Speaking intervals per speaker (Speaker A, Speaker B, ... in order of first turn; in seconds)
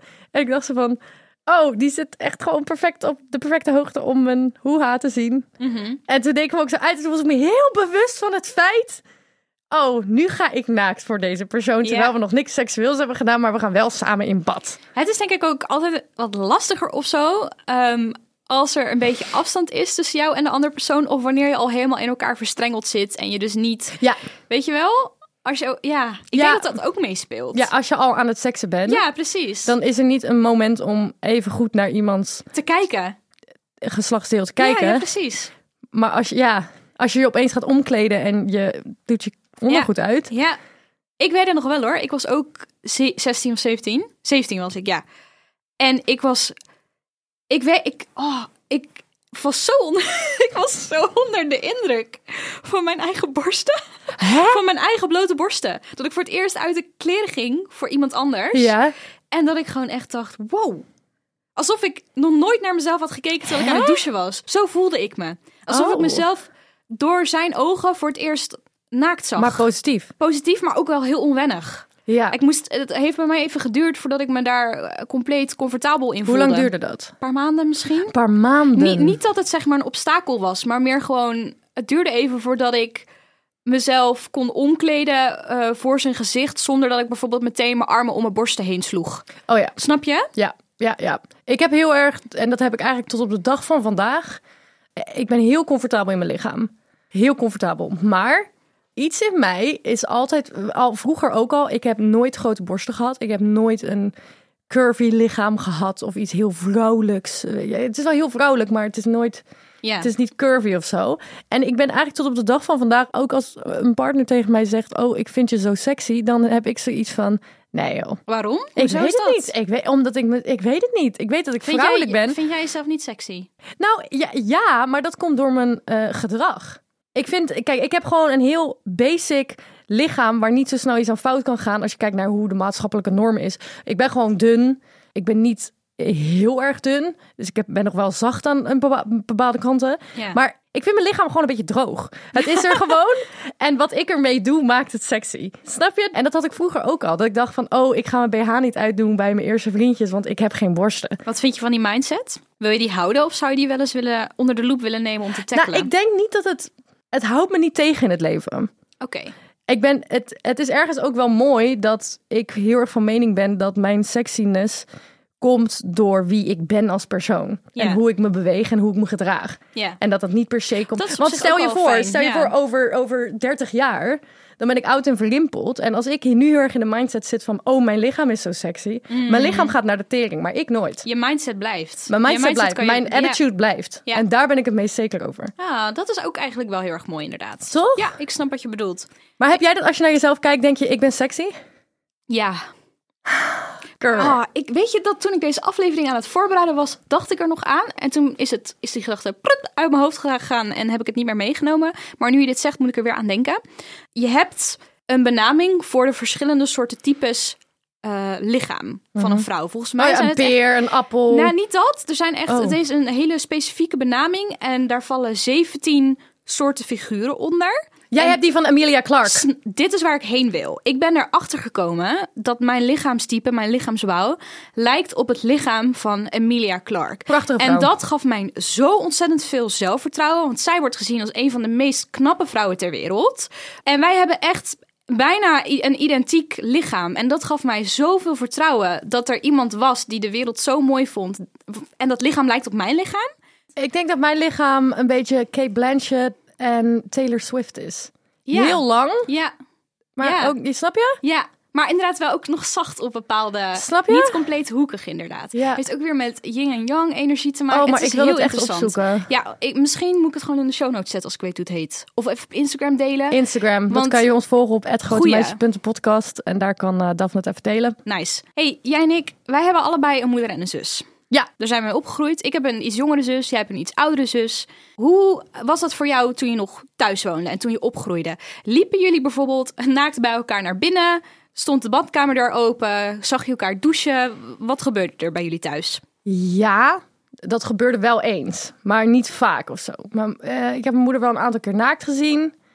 Speaker A: 0.3-5.5, 6.1-9.0, 9.7-14.8, 26.3-26.7, 27.5-29.0, 29.6-32.5, 33.8-35.1, 35.9-40.3, 54.2-54.6, 58.5-58.9, 63.5-64.0, 65.7-66.2, 69.4-70.1, 72.1-72.4, 76.2-77.1, 78.1-79.2, 89.5-89.8, 90.3-94.4, 95.0-104.1, 104.7-109.4, 110.0-118.2, 118.8-122.4, 123.8-151.2, 155.5-158.7, 159.7-164.8, 165.4-181.1, 182.1-185.5, 187.7-188.1, 189.4-191.5, 193.3-194.3, 209.2-209.4, 210.0-211.5, 212.5-212.8, 218.1-219.4, 227.3-227.9, 243.8-249.3, 250.2-251.2, 253.7-254.4, 255.5-255.8, 257.7-259.3, 263.3-268.0, 286.2-292.5
Speaker B: 5.6-6.0, 11.8-12.1, 14.9-27.7, 28.9-29.7, 32.5-33.1, 34.6-35.5, 39.7-40.6, 41.2-45.0, 45.8-46.5, 47.5-58.7, 59.3-60.8, 61.5-69.7, 70.2-78.1, 78.7-83.1, 83.7-90.3, 109.8-110.1, 118.3-119.5, 121.6-123.5, 151.2-155.9, 159.0-159.3, 167.8-168.0, 170.9-172.5, 179.1-179.7, 181.0-183.4, 185.6-189.1, 192.3-192.6, 194.1-203.6, 204.1-210.6, 211.3-218.4, 219.2-243.3, 248.5-249.5, 250.2-250.5, 251.2-264.2, 265.1-265.6, 268.1-286.0